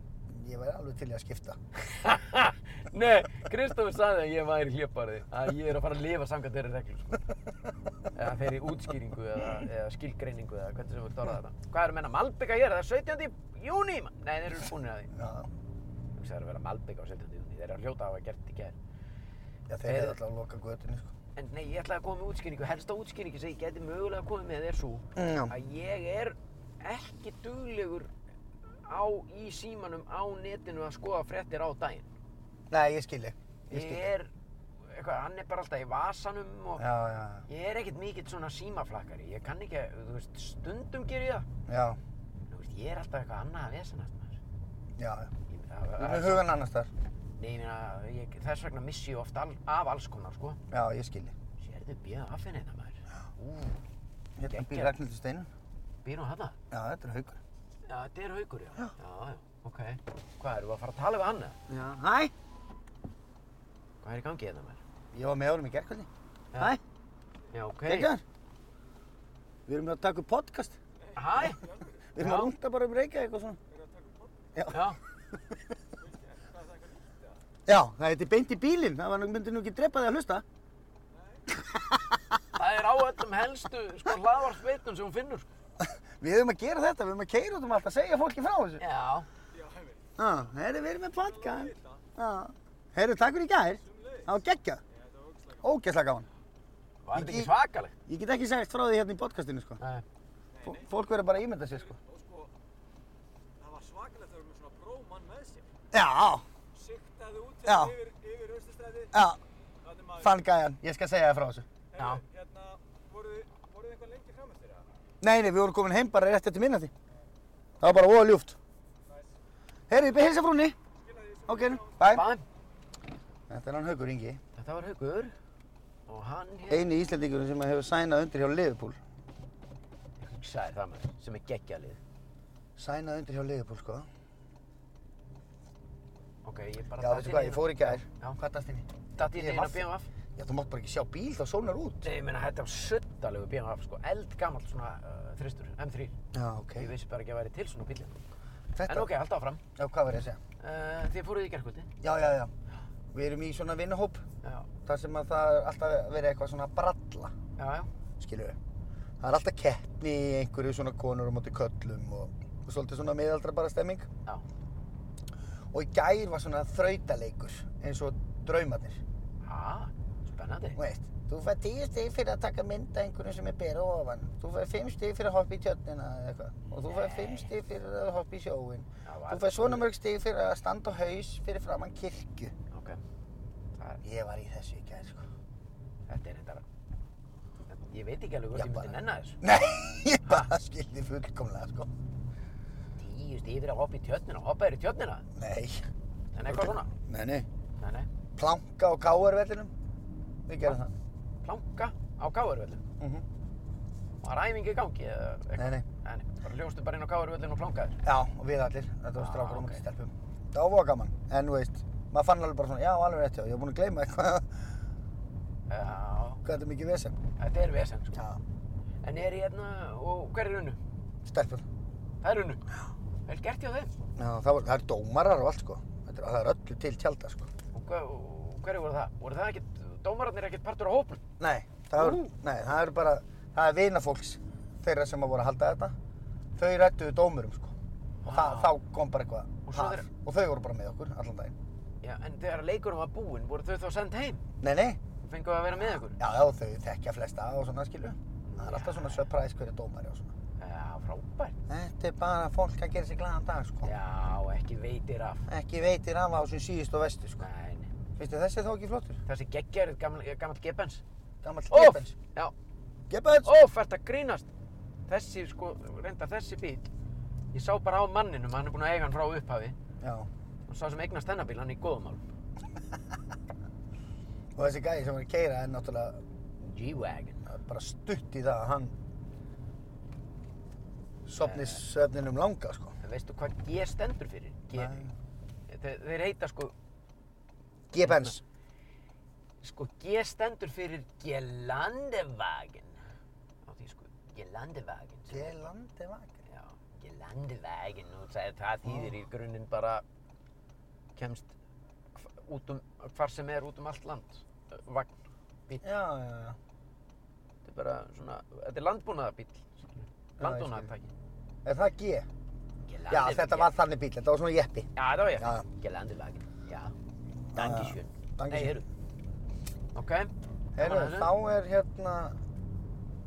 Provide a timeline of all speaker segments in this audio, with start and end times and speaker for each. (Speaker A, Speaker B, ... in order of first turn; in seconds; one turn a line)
Speaker A: 0.3-1.6
Speaker B: 1.8-7.2
Speaker B: 8.1-15.1
Speaker A: 15.1-15.5
Speaker B: 16.1-18.8
Speaker A: 19.7-21.1
Speaker B: 19.9-20.2
Speaker B: 21.4-28.1
Speaker A: 25.1-25.5
Speaker B: 28.9-32.1
Speaker A: 32.7-34.1
Speaker B: 33.7-34.3
Speaker B: 34.9-36.9
Speaker A: 36.8-37.5
Speaker B: 37.5-41.5
Speaker A: 41.7-42.0
Speaker B: 42.5-44.4
Speaker A: 45.0-45.3
Speaker B: 45.5-46.5
Speaker A: 46.0-46.9
Speaker B: 47.4-50.6
Speaker A: 50.7-51.3
Speaker B: 51.6-53.6
Speaker A: 54.4-55.5
Speaker B: 54.5-54.9
Speaker B: 56.0-56.5
Speaker A: 56.7-57.4
Speaker B: 57.9-61.6
Speaker A: 61.7-62.3
Speaker B: 64.0-64.8
Speaker A: 65.1-66.8
Speaker B: 67.5-68.1
Speaker A: 67.8-68.2
Speaker A: 69.7-70.8
Speaker C: 71.0-72.0
Speaker B: 71.2-71.6
Speaker A: 72.1-73.6
Speaker B: 72.2-72.5
Speaker C: 73.7-74.6
Speaker A: 74.5-74.9
Speaker B: 74.7-75.0
Speaker C: 76.0-77.4
Speaker A: 77.7-80.4
Speaker C: 81.1-81.4
Speaker A: 81.5-82.4
Speaker B: 82.5-85.5
Speaker A: 85.8-88.8
Speaker B: 88.8-89.3
Speaker C: 89.5-90.1
Speaker A: 90.2-94.8
Speaker C: 91.1-92.0
Speaker C: 93.8-94.3
Speaker C: 94.9-95.7
Speaker A: 95.6-96.3
Speaker B: 97.0-97.9
Speaker A: 97.1-97.5
Speaker A: 98.1-99.8
Speaker C: 100.6-100.9
Speaker A: 100.6-102.0
Speaker C: 101.7-102.5
Speaker C: 103.6-105.7
Speaker A: 105.9-106.4
Speaker C: 106.7-109.1
Speaker A: 107.6-107.9
Speaker A: 109.1-109.4
Speaker C: 109.8-110.4
Speaker A: 110.2-111.7
Speaker C: 111.9-114.8
Speaker B: 112.0-112.2
Speaker A: 115.2-116.9
Speaker A: 117.8-118.6
Speaker A: 119.9-120.8
Speaker C: 121.0-122.1
Speaker A: 121.5-122.3
Speaker B: 122.0-122.4
Speaker A: 123.5-124.4
Speaker B: 124.5-125.3
Speaker B: 126.1-126.9
Speaker A: 126.7-129.0
Speaker B: 130.2-132.0
Speaker A: 132.8-134.1
Speaker B: 136.4-138.4
Speaker A: 137.0-142.1
Speaker B: 139.2-140.1
Speaker B: 142.0-146.1
Speaker A: 146.3-146.9
Speaker B: 146.8-148.2
Speaker A: 148.7-149.1
Speaker B: 148.8-149.6
Speaker A: 149.8-150.4
Speaker B: 150.6-151.9
Speaker A: 152.0-152.5
Speaker A: 153.1-154.2
Speaker B: 154.4-154.7
Speaker A: 154.8-157.3
Speaker B: 157.6-157.9
Speaker A: 158.2-158.6
Speaker A: 159.2-164.1
Speaker A: 165.7-169.0
Speaker B: 169.4-170.8
Speaker A: 170.8-182.5
Speaker B: 176.8-177.5
Speaker B: 179.0-179.9
Speaker B: 182.7-183.0
Speaker B: 183.8-184.0
Speaker A: 184.0-185.2
Speaker B: 186.1-186.6
Speaker B: 187.7-189.4
Speaker A: 188.5-191.9
Speaker B: 193.0-195.2
Speaker A: 195.3-195.8
Speaker B: 196.3-196.9
Speaker A: 196.4-197.5
Speaker B: 197.8-198.1
Speaker A: 198.3-199.7
Speaker A: 200.5-200.9
Speaker B: 201.4-202.8
Speaker A: 203.0-203.2
Speaker B: 204.2-208.0
Speaker A: 205.6-205.8
Speaker A: 208.0-214.6
Speaker B: 209.2-209.8
Speaker B: 215.7-216.4
Speaker A: 216.4-217.2
Speaker B: 217.4-218.2
Speaker A: 218.1-218.4
Speaker B: 219.0-220.8
Speaker A: 221.2-221.7
Speaker B: 222.2-222.6
Speaker B: 223.2-223.9
Speaker A: 224.2-227.5
Speaker B: 227.7-231.2
Speaker A: 231.4-235.9
Speaker B: 231.9-232.3
Speaker A: 236.6-237.7
Speaker B: 238.2-238.8
Speaker A: 238.2-241.6
Speaker B: 239.6-240.1
Speaker B: 242.0-244.4
Speaker A: 244.6-245.0
Speaker B: 245.2-246.2
Speaker A: 245.8-250.3
Speaker B: 248.5-249.3
Speaker B: 250.6-251.6
Speaker A: 251.7-253.9
Speaker B: 253.8-255.5
Speaker A: 255.5-257.4
Speaker B: 257.4-257.9
Speaker A: 258.2-259.2
Speaker B: 259.2-261.0
Speaker A: 261.4-262.1
Speaker B: 261.7-262.5
Speaker A: 263.1-263.5
Speaker B: 263.4-264.5
Speaker B: 265.1-266.9
Speaker B: 267.5-269.8
Speaker A: 270.0-270.3
Speaker B: 270.7-272.2
Speaker A: 274.6-276.2
Speaker B: 276.6-277.4
Speaker A: 277.4-278.9
Speaker A: 281.2-283.0
Speaker B: 281.4-281.8
Speaker B: 283.0-285.1
Speaker A: 284.7-285.1
Speaker B: 285.7-286.7
Speaker A: 287.9-288.4
Speaker B: 288.0-288.4
Speaker B: 289.6-293.0
Speaker B: 293.6-295.6
Speaker A: 295.3-296.4
Speaker B: 296.5-300.0
Speaker B: 301.1-301.5
Speaker B: 302.1-305.1
Speaker A: 305.8-306.6
Speaker B: 307.6-311.1
Speaker A: 310.4-310.9
Speaker A: 311.6-312.3
Speaker B: 312.9-313.7
Speaker A: 313.1-315.6
Speaker B: 314.9-316.9
Speaker A: 317.5-318.8
Speaker B: 317.5-318.9
Speaker B: 319.9-321.3
Speaker A: 320.8-322.4